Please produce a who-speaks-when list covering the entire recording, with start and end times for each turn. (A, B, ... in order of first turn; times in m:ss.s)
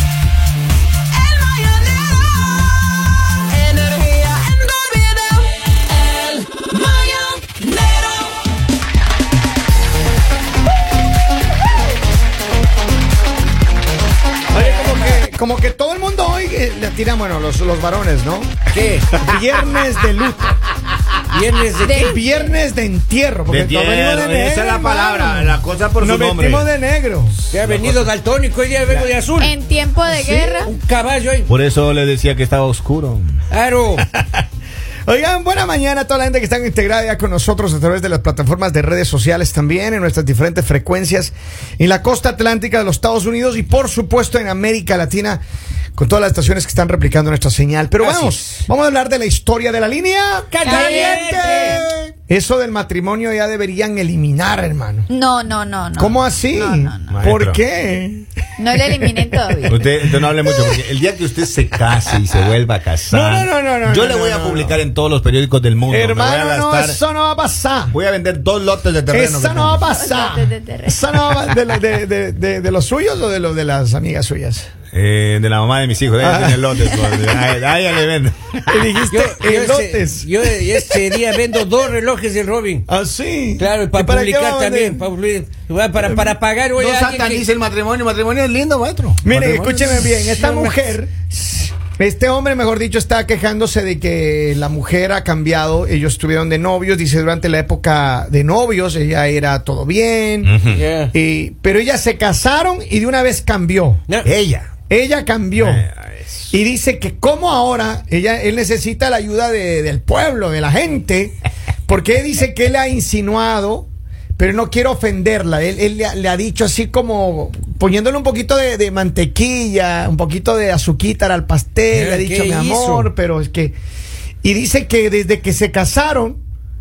0:03.7-0:05.5 A
0:06.2-0:07.8 A
0:14.5-0:18.6 B
0:14.6-0:15.2 A
0:18.7-0:19.2 A
0:19.1-0:20.5 B
0:21.3-0:22.2 A
0:21.8-0:22.5 C
0:21.9-0:27.5 B
0:23.5-0:26.7 D
0:27.5-0:29.5 A
0:27.6-0:28.1 D
0:29.4-0:30.7 C
0:30.1-0:30.7 B
0:30.6-0:31.5 A
0:31.5-0:33.4 D
0:33.5-0:34.1 A
0:35.1-0:45.4 B
0:46.0-0:55.1 B
0:48.0-0:48.6 A
0:50.5-0:51.8 A
0:50.6-0:51.8 C
0:55.1-0:57.2 C
0:56.0-0:58.3 B
0:57.1-0:57.6 D
0:58.6-0:59.8 C
0:58.9-0:59.3 B
0:59.7-1:07.0 D
1:00.3-1:00.8 B
1:03.1-1:04.8 B
1:05.9-1:08.0 B
1:07.9-1:09.9 D
1:09.1-1:14.7 B
1:09.9-1:11.0 C
1:14.9-1:18.8 D
1:16.2-1:17.1 B
1:18.7-1:21.2 B
1:19.1-1:22.9 A
1:22.9-1:25.0 B
1:23.6-1:27.5 A
1:26.0-1:26.3 B
1:26.8-1:30.1 D
1:29.2-1:40.6 B
1:30.0-1:30.8 A
1:40.4-1:40.8 D
1:40.7-1:41.1 A
1:41.1-1:44.0 B
1:44.2-1:44.7 D
1:44.9-1:45.8 B
1:45.6-1:46.4 D
1:46.5-2:03.8 B
2:01.9-2:03.1 A
2:04.4-2:06.4 B